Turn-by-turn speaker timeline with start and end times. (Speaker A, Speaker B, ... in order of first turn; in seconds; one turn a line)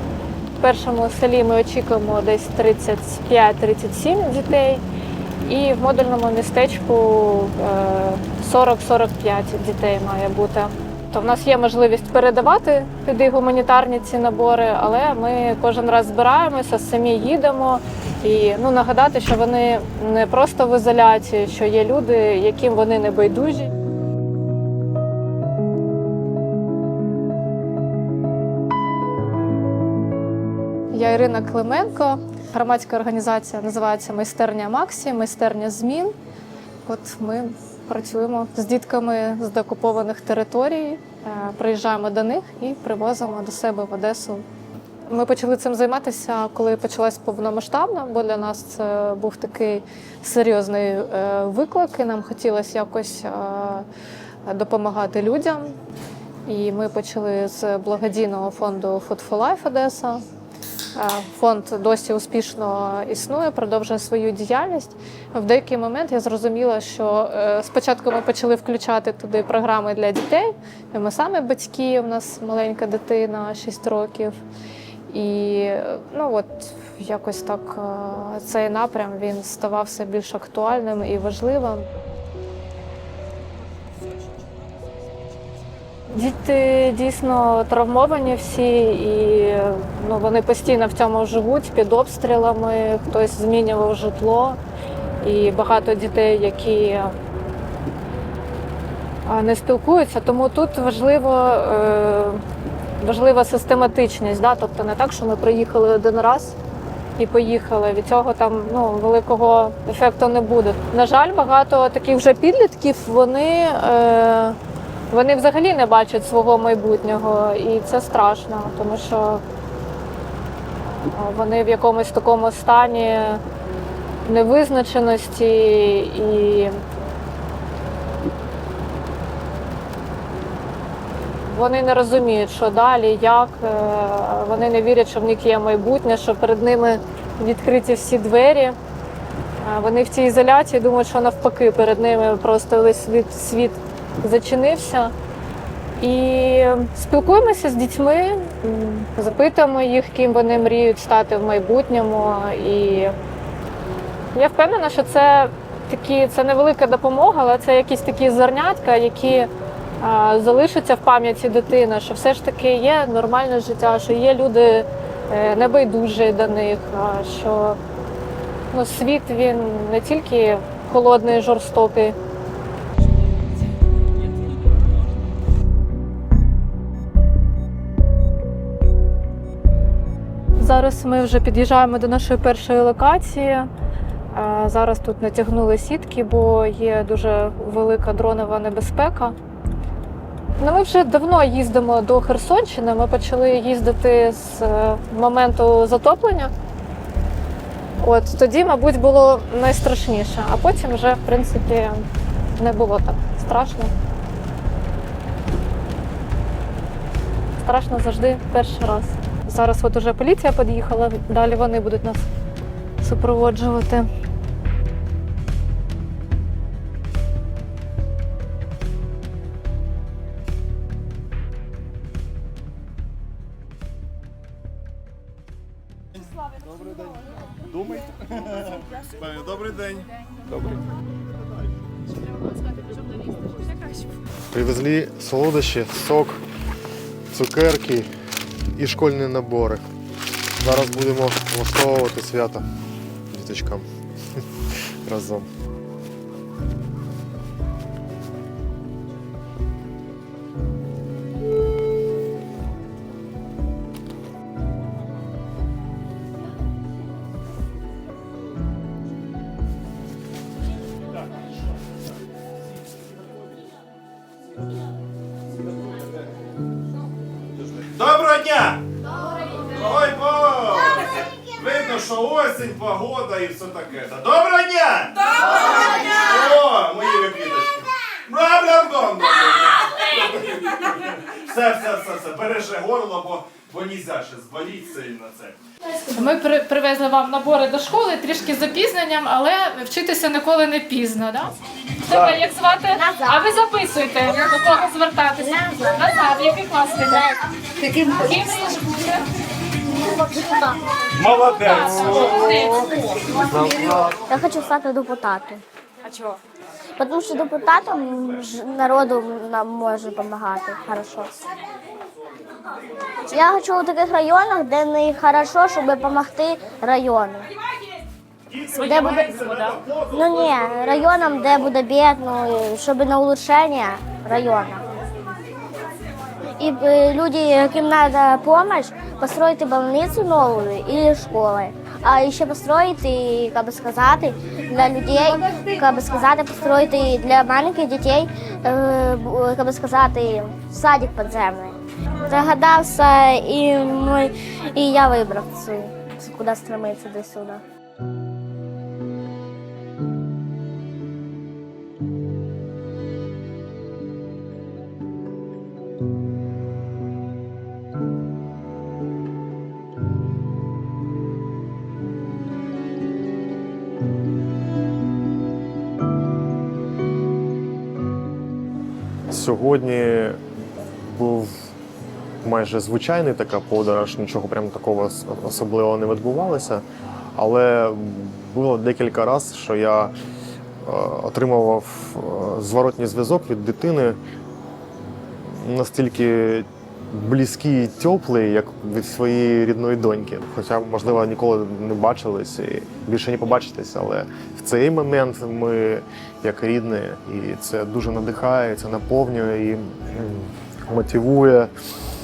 Speaker A: 0.6-4.8
Speaker A: 5.4-23.7
Speaker A: 30.9-36.1
Speaker A: 36.9-44.5
Speaker A: 45.1-53.9
Speaker A: 54.5-55.8
Speaker A: 56.5-60.2
Speaker A: 61.0-74.4
Speaker A: 75.1-81.9
Speaker A: 86.1-94.6
Speaker A: 95.2-97.2
Speaker A: 99.3-102.4
Speaker A: 103.0-106.6
Speaker A: 107.2-114.6
Speaker A: 115.1-119.4
Speaker A: 120.9-123.4
Speaker A: 124.2-126.8
Speaker A: 131.4-138.8
Speaker A: 139.6-145.1
Speaker A: 146.0-153.1
Speaker A: 154.3-167.8
Speaker A: 168.7-172.2
Speaker A: 180.6-183.7
Speaker A: 184.3-189.4
Speaker A: 190.6-196.5
Speaker A: 198.0-202.1
Speaker A: 202.6-203.9
Speaker A: 207.6-212.3
Speaker A: 213.0-214.1
Speaker B: 229.4-229.9
Speaker C: 234.5-236.4
Speaker C: 237.3-238.1
Speaker C: 238.7-239.8
Speaker C: 240.6-242.6
Speaker C: 243.3-243.9
Speaker C: 245.0-245.5
Speaker B: 267.9-268.8
Speaker B: 269.6-285.6
Speaker A: 286.0-297.3
Speaker B: 292.1-292.4
Speaker D: 292.9-293.5
Speaker A: 298.1-299.3
Speaker D: 299.9-300.8
Speaker B: 301.1-302.5
Speaker A: 301.5-302.9
Speaker D: 302.6-305.6
Speaker B: 303.6-303.9
Speaker D: 307.0-311.3
Speaker D: 313.3-317.5
Speaker B: 318.5-320.2
Speaker D: 318.7-324.9
Speaker D: 326.6-347.6
Speaker C: 369.3-370.4
Speaker C: 371.1-371.6
Speaker C: 372.4-376.8
Speaker C: 377.4-380.1
Speaker C: 380.8-384.2
Speaker C: 385.4-401.7